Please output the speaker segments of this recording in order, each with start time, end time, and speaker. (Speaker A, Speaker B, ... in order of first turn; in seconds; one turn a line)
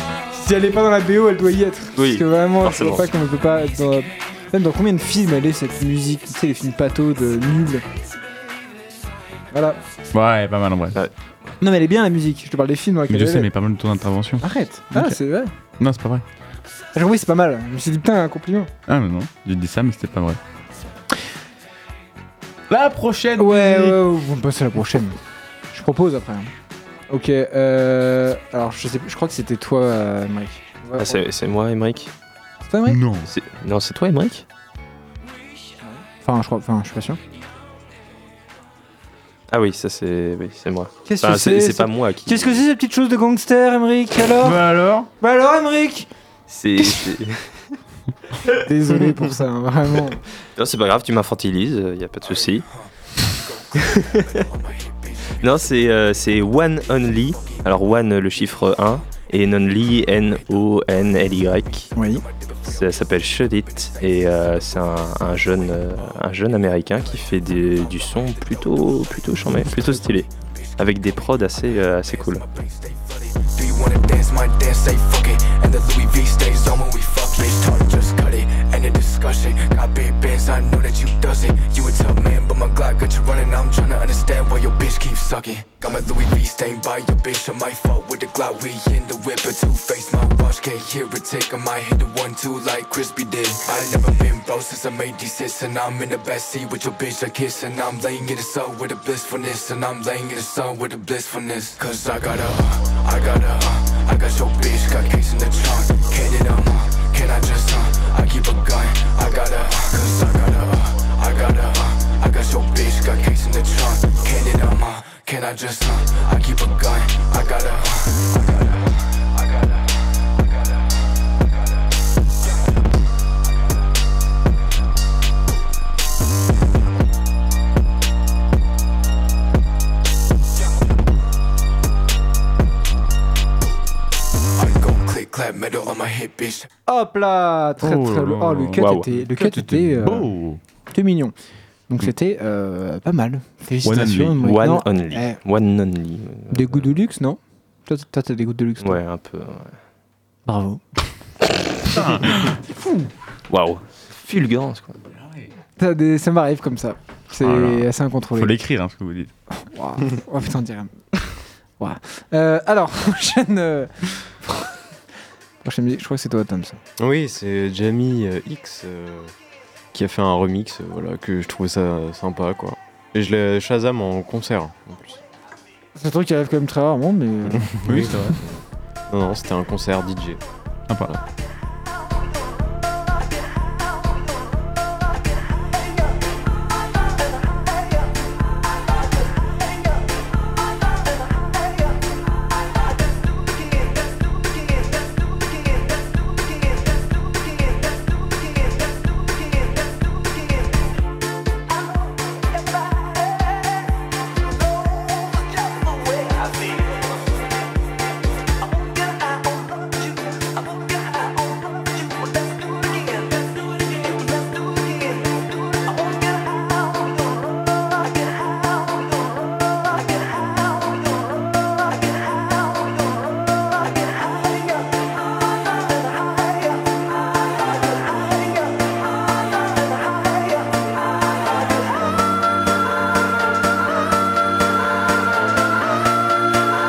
Speaker A: 0.3-7.8
Speaker B: 1.9-3.0
Speaker A: 9.5-9.8
Speaker C: 10.1-11.0
Speaker A: 11.6-13.5
Speaker C: 13.1-15.2
Speaker A: 14.4-15.5
Speaker C: 15.8-16.2
Speaker A: 16.9-18.7
Speaker C: 18.9-20.4
Speaker C: 22.7-24.0
Speaker A: 23.4-25.2
Speaker A: 25.7-26.5
Speaker A: 27.1-31.2
Speaker B: 31.0-32.1
Speaker A: 32.6-33.0
Speaker C: 32.9-33.3
Speaker B: 33.3-34.4
Speaker A: 35.8-37.2
Speaker B: 39.5-42.6
Speaker A: 41.0-44.6
Speaker C: 44.4-45.1
Speaker A: 45.2-46.1
Speaker B: 46.5-47.4
Speaker A: 48.5-50.2
Speaker B: 50.6-52.6
Speaker D: 53.4-55.7
Speaker B: 53.8-54.2
Speaker B: 55.4-61.9
Speaker A: 62.0-62.2
Speaker D: 62.1-62.9
Speaker B: 62.6-72.5
Speaker D: 67.0-69.0
Speaker D: 70.4-121.4
Speaker D: 122.4-122.7
Speaker D: 134.6-136.7
Speaker A: 136.9-140.3
Speaker C: 137.8-140.6
Speaker B: 138.8-139.0
Speaker A: 140.9-141.3
Speaker A: 141.9-145.4
Speaker C: 143.8-144.5
Speaker B: 144.4-146.9
Speaker A: 146.5-149.0
Speaker B: 148.8-149.8
Speaker A: 150.4-150.8
Speaker C: 151.9-152.6
Speaker B: 153.5-155.0
Speaker C: 155.2-155.5
Speaker A: 155.8-158.6
Speaker C: 157.4-159.3
Speaker A: 159.6-160.9
Speaker A: 161.8-164.7
Speaker A: 165.6-166.8
Speaker E: 167.0-169.3
Speaker E: 169.9-175.2
Speaker A: 175.9-178.1
Speaker E: 177.5-180.4
Speaker C: 177.8-178.4
Speaker C: 180.9-181.1